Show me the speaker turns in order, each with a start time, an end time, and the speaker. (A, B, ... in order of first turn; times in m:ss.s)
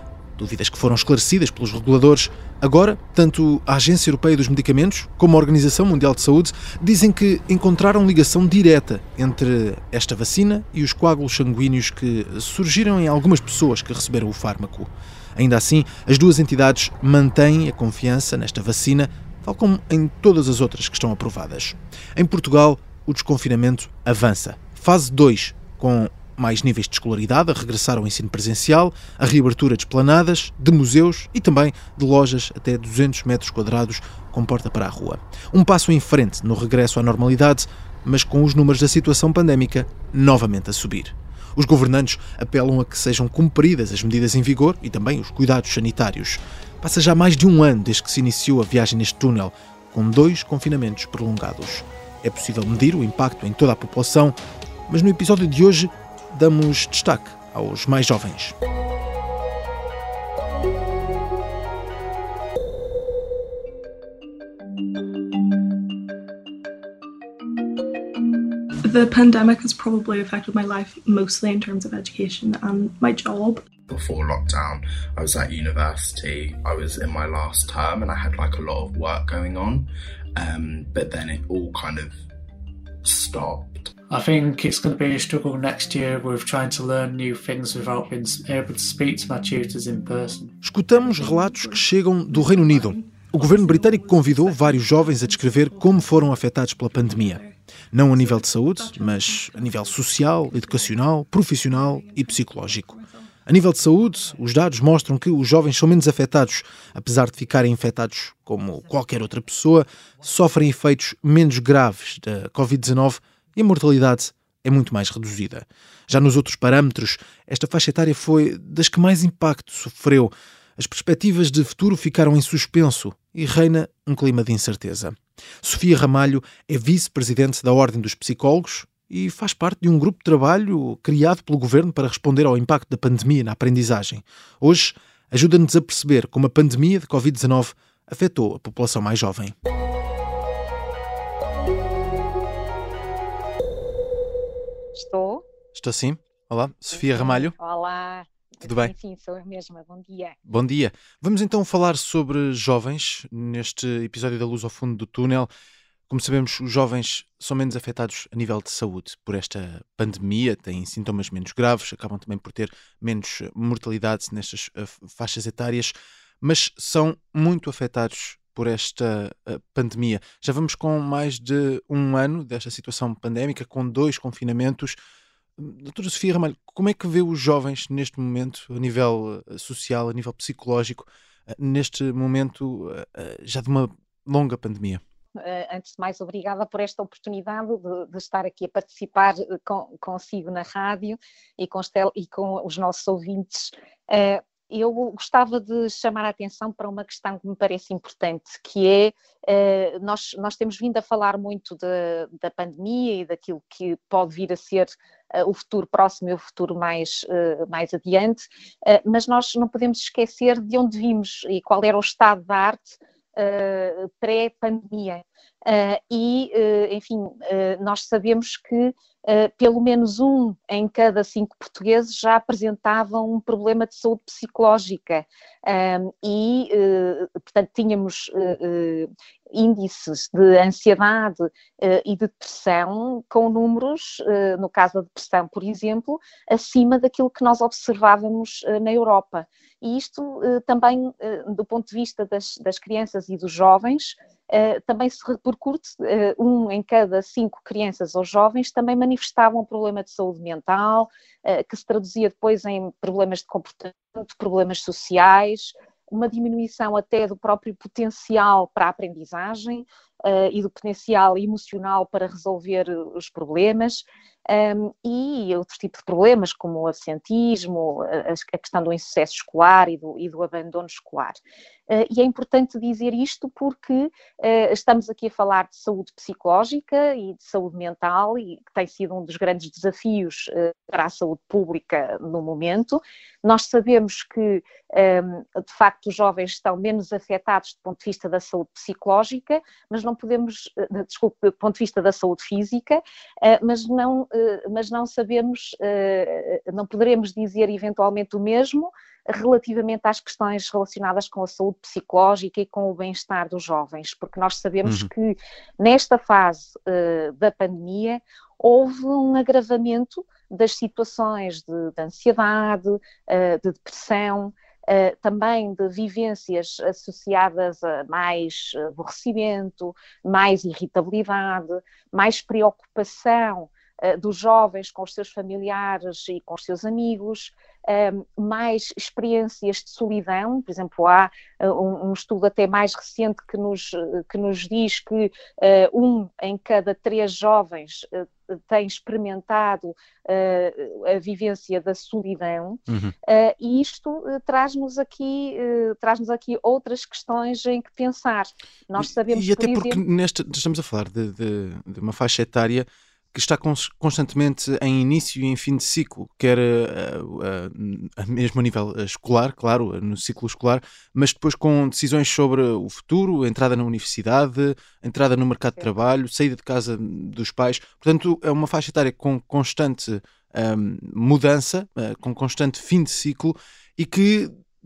0:00.4-0:54.4 A
0:54.9-0:58.6 A
1:08.8-1:13.6 B
1:13.9-1:19.8 C
1:20.4-1:22.1 C
1:23.0-1:23.9 C
1:24.1-1:30.6 D
1:30.6-1:42.9 A
1:30.9-1:37.6 B
1:38.1-1:43.4 B
1:43.5-2:19.5 A
1:43.9-1:44.2 B
2:24.9-2:25.4 E
2:25.7-2:27.5 A
2:26.9-2:30.4 E
2:28.6-2:28.9 A
2:30.5-2:35.5 A
2:36.1-2:55.0 A
2:55.6-3:05.0 A
3:05.4-5:50.0 E
5:04.8-5:05.1 A
5:42.9-5:43.1 A
5:49.0-6:14.5 A